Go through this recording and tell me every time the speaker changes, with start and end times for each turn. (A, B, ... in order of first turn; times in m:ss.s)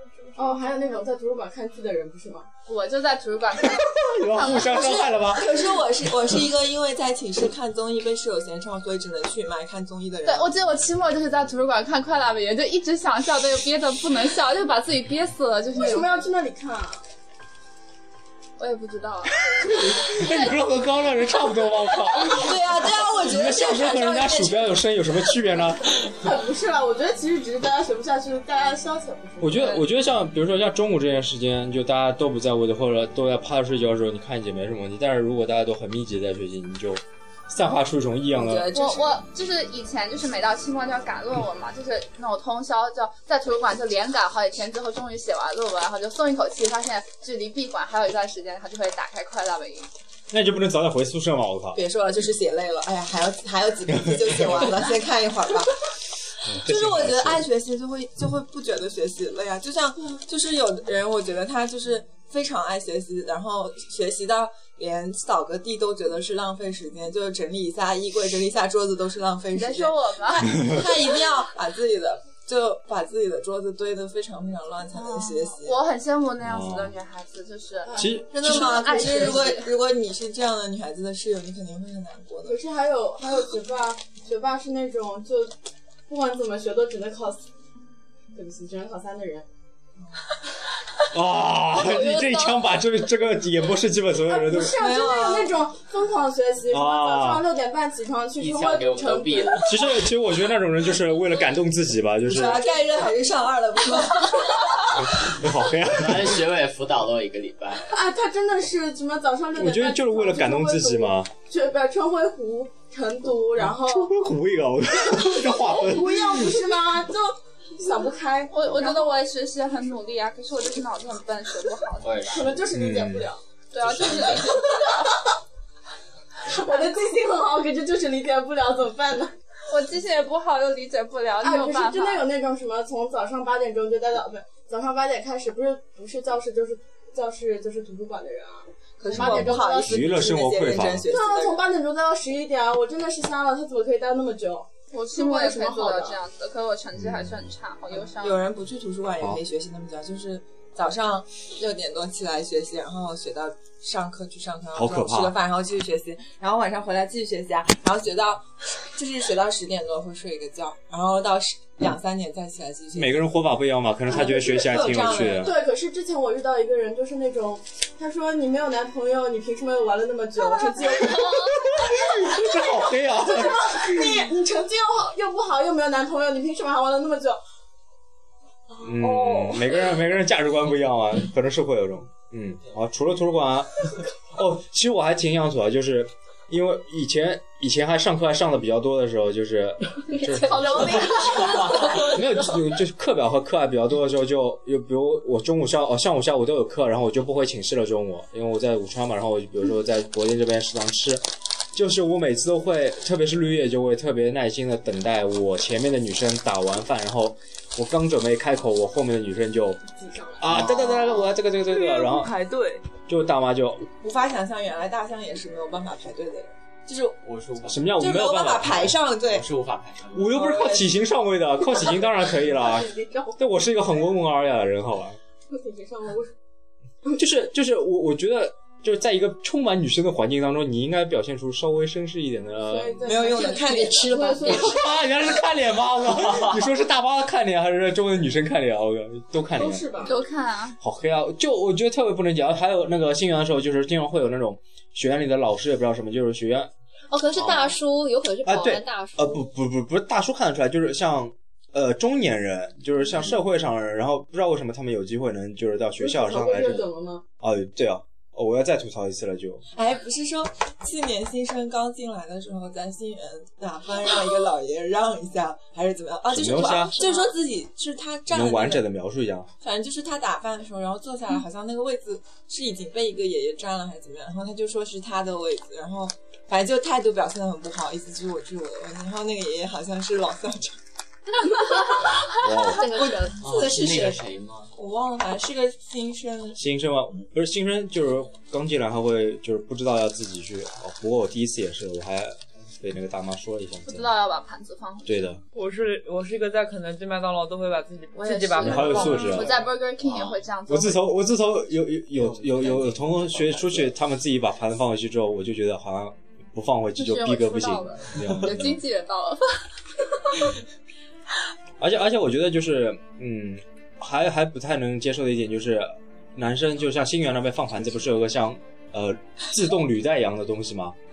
0:00.3-0:02.5 A
0:02.7-0:05.0 B
0:04.2-0:05.6 C
0:04.7-0:10.5 D
0:10.2-0:16.3 B
0:15.7-0:17.0 A
0:18.6-0:19.4 B
0:19.7-0:25.9 C
0:20.0-0:20.6 B
0:22.3-0:24.8 D
0:26.1-0:29.8 A
0:29.4-0:38.8 C
0:38.4-0:49.9 B
0:50.3-0:51.8 C
0:51.7-0:55.7 D
0:56.4-0:57.5 C
0:56.6-1:15.8 D
1:09.5-1:10.8 B
1:14.9-1:19.7 B
1:16.4-1:16.9 C
1:17.8-1:18.2 A
1:18.0-1:18.4 C
1:18.4-1:22.6 D
1:18.8-1:19.5 A
1:22.4-1:25.5 A
1:26.1-1:27.5 A
1:28.3-1:29.4 A
1:31.1-1:34.8 C
1:34.2-1:40.0 A
1:34.6-1:35.5 D
1:36.7-1:37.4 C
1:38.4-1:39.7 E
1:39.6-1:42.7 C
1:42.3-1:44.8 D
1:45.2-1:46.4 C
1:45.9-1:47.9 E
1:47.9-1:54.2 A
1:49.5-1:51.3 C
1:53.7-1:56.5 C
1:55.2-1:59.1 A
1:58.5-2:02.1 B
2:02.0-2:02.6 E
2:02.3-2:03.4 A
2:02.7-2:03.3 C
2:03.7-2:05.1 B
2:03.8-2:04.4 E
2:06.4-2:09.3 A
2:09.7-2:12.3 B
2:11.4-2:20.0 A
2:19.0-2:21.7 D
2:19.1-2:21.1 C
2:21.1-2:26.2 A
2:24.9-2:28.4 B
2:27.0-2:27.3 C
2:27.9-2:43.3 D
2:34.7-2:35.4 C
2:42.9-2:45.5 C
2:44.0-2:45.5 D
2:45.3-2:51.4 A
2:50.9-2:54.3 C
2:52.2-2:57.4 A
2:58.8-3:11.2 C
2:58.9-2:59.7 A
3:10.5-3:12.0 A
3:12.0-3:21.2 C
3:21.7-3:29.8 C
3:30.0-3:30.6 A
3:30.4-3:32.4 C
3:30.7-3:32.9 F
3:33.1-3:33.9 C
3:34.0-3:37.2 D
3:37.2-3:38.0 E
3:37.6-3:39.0 C
3:38.0-3:39.5 D
3:39.2-3:40.4 E
3:40.1-3:45.2 C
3:40.3-3:40.9 D
3:42.4-3:44.0 A
3:45.5-3:46.3 A
3:47.2-3:53.2 C
3:52.6-3:54.9 A
3:53.0-3:54.4 D
3:53.6-3:54.6 G
3:54.4-3:59.9 C
3:59.6-4:00.2 A
4:00.0-4:00.8 B
4:00.8-4:06.7 C
4:07.1-4:09.4 G
4:07.3-4:07.8 E
4:08.4-4:16.9 C
4:15.9-4:17.2 A
4:17.4-4:19.6 C
4:19.7-4:28.9 D
4:26.3-4:27.0 C
4:26.7-4:27.3 G
4:28.3-4:29.5 C
4:29.6-4:40.8 D
4:42.4-4:42.9 C
4:42.8-4:43.3 G
4:42.8-4:46.6 D
4:43.4-4:44.7 E
4:46.6-4:54.1 C
4:53.8-4:55.2 B
4:55.0-4:55.4 C
4:55.5-4:59.4 F
4:58.1-5:01.1 B
4:58.6-4:59.6 C
4:59.3-5:00.4 E
5:00.7-5:08.8 C
5:02.1-5:04.0 E
5:07.0-5:09.6 B
5:11.8-5:21.0 C